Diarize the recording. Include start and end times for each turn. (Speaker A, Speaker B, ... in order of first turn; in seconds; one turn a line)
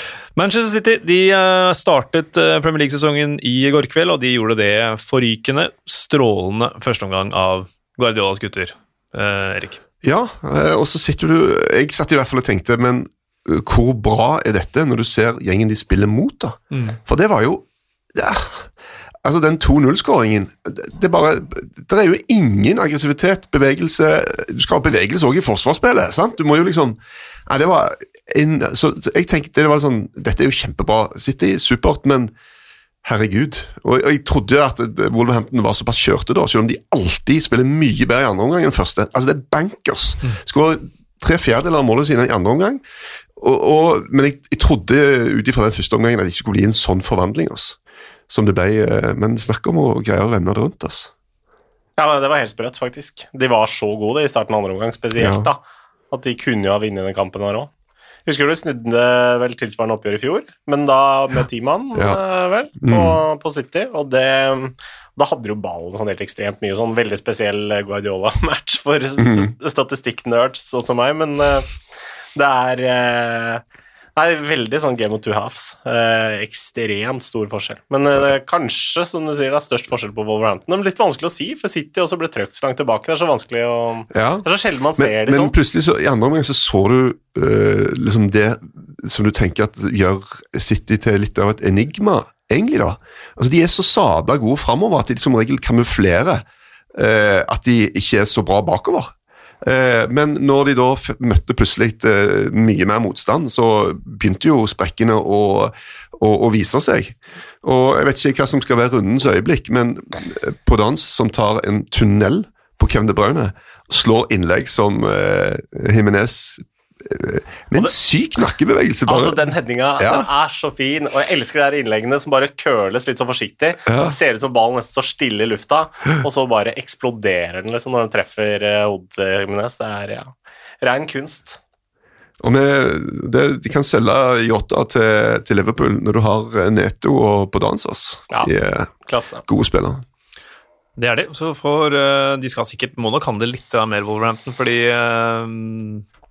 Speaker A: 0.3-9.8
Speaker B: 10.0-18.7
Speaker A: 16.7-17.0
Speaker B: 19.2-32.3
Speaker B: 33.0-42.8
Speaker B: 43.4-47.8
Speaker B: 48.3-51.1
Speaker C: 52.0-57.7
Speaker B: 55.2-55.5
Speaker C: 58.2-71.7
Speaker B: 62.0-62.2
Speaker B: 62.8-63.2
Speaker B: 69.2-69.5
Speaker C: 72.3-73.6
Speaker C: 74.2-85.5
Speaker B: 84.1-96.4
Speaker B: 97.0-119.4
Speaker C: 119.1-131.6
Speaker B: 120.0-120.3
Speaker B: 123.9-124.2
Speaker B: 132.4-138.9
Speaker C: 139.1-139.4
Speaker B: 139.4-140.0
Speaker A: 141.0-146.0